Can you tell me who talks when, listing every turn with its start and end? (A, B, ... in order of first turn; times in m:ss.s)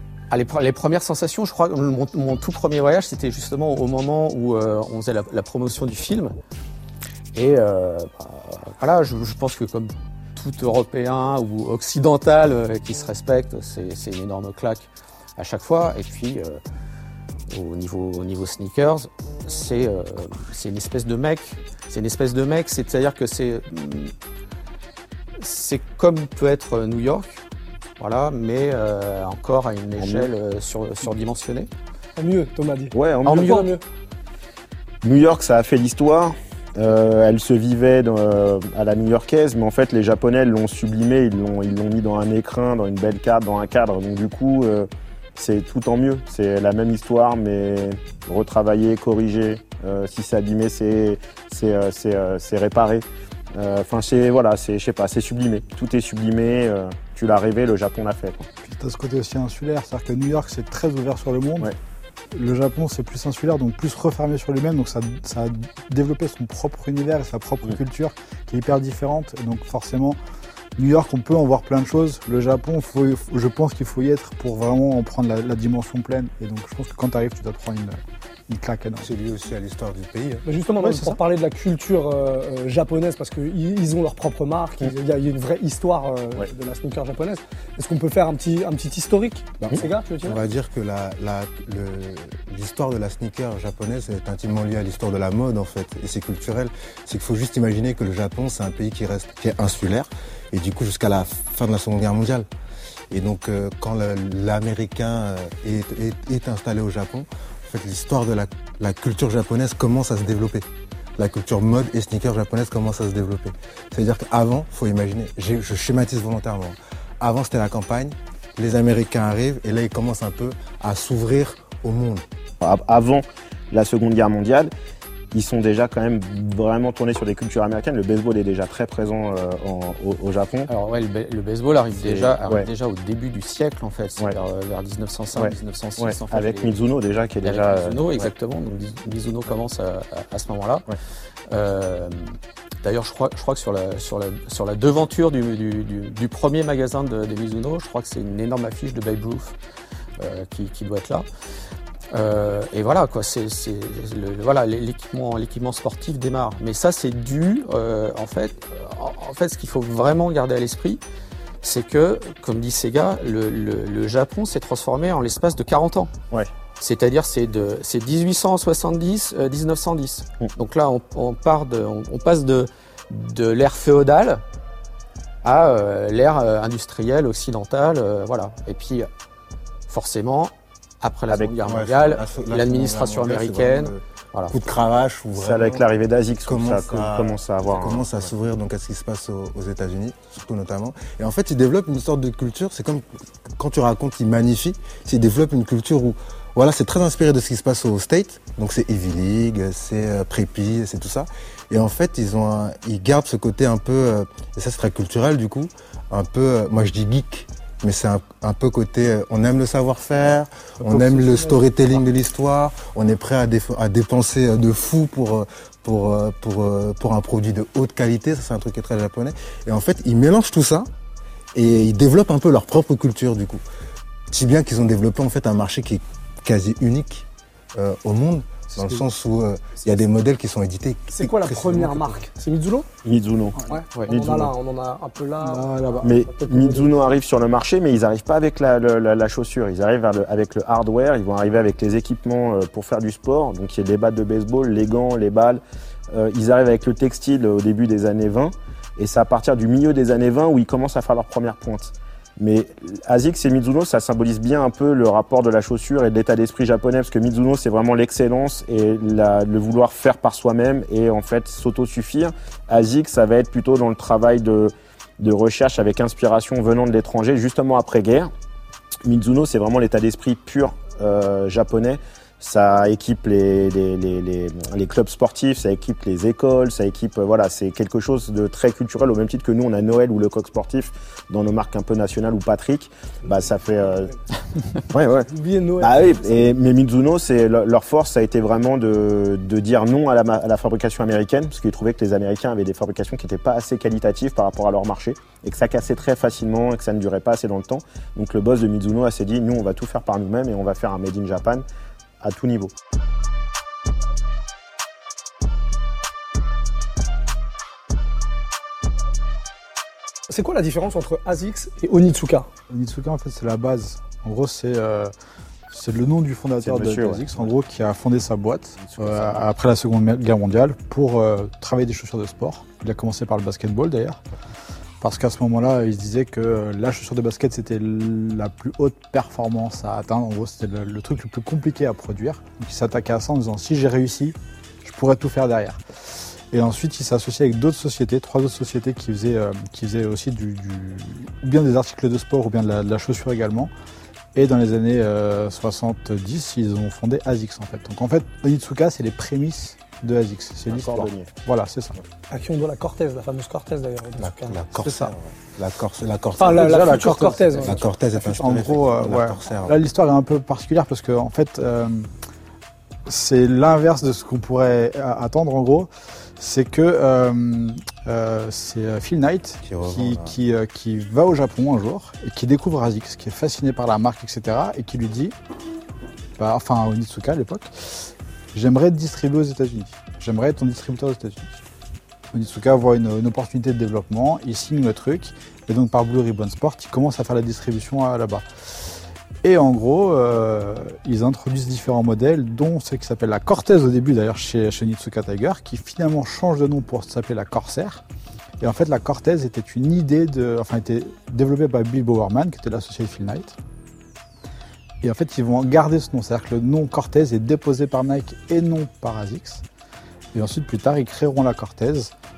0:00.3-0:06.4 A
0:07.3-0:16.6 A
0:17.5-0:24.1 A
0:25.4-0:27.4 A
0:28.0-0:31.7 A
0:30.0-0:30.3 B
0:32.2-0:33.8 C
0:32.9-0:33.7 B
0:35.0-0:58.5 B
0:58.6-1:01.7 D
1:02.3-1:10.2 D
1:10.8-1:19.1 D
1:19.0-1:20.5 E
1:20.5-1:30.4 C
1:20.8-1:21.2 D
1:29.6-1:42.5 E
1:43.1-2:02.2 E
2:02.6-2:04.7 B
2:05.3-2:10.7 B
2:10.7-2:16.8 A
2:12.0-2:12.7 B
2:15.4-2:18.3 B
2:17.4-2:20.8 A
2:21.5-2:29.6 A
2:30.2-2:31.2 A
2:32.1-2:41.0 A
2:41.6-2:46.1 A
2:46.8-2:54.4 A
2:55.4-2:59.1 A
2:59.9-3:04.6 A
3:01.6-3:05.8 E
3:05.4-3:08.1 B
3:06.5-3:40.9 E
3:30.8-3:31.7 D
3:41.5-3:43.6 E
3:44.3-3:52.2 E
3:48.8-3:49.0 D
3:51.1-3:52.9 C
3:53.0-3:54.5 B
3:53.7-3:56.9 C
3:55.4-3:56.1 D
3:56.0-4:28.3 B
4:29.0-4:44.2 B
4:44.8-5:01.6 B
4:45.3-4:46.5 C
5:02.2-5:02.7 B
5:10.3-5:12.5 C
5:12.7-5:15.1 D
5:15.7-5:24.2 D
5:16.6-5:17.4 B
5:18.8-5:19.5 B
5:25.0-5:35.8 D
5:36.5-5:43.7 D
5:44.3-5:52.0 D
5:50.7-5:51.3 B
5:52.3-5:54.9 C
5:54.2-5:59.8 E
5:54.8-5:55.1 D
5:56.4-5:57.8 C
5:58.2-6:02.1 D
6:03.1-6:15.4 D
6:09.6-6:10.4 E
6:16.4-6:21.6 D
6:22.3-6:28.4 D
6:29.4-6:38.0 D
6:38.6-6:43.6 D
6:45.0-6:49.6 D
6:50.3-6:52.1 D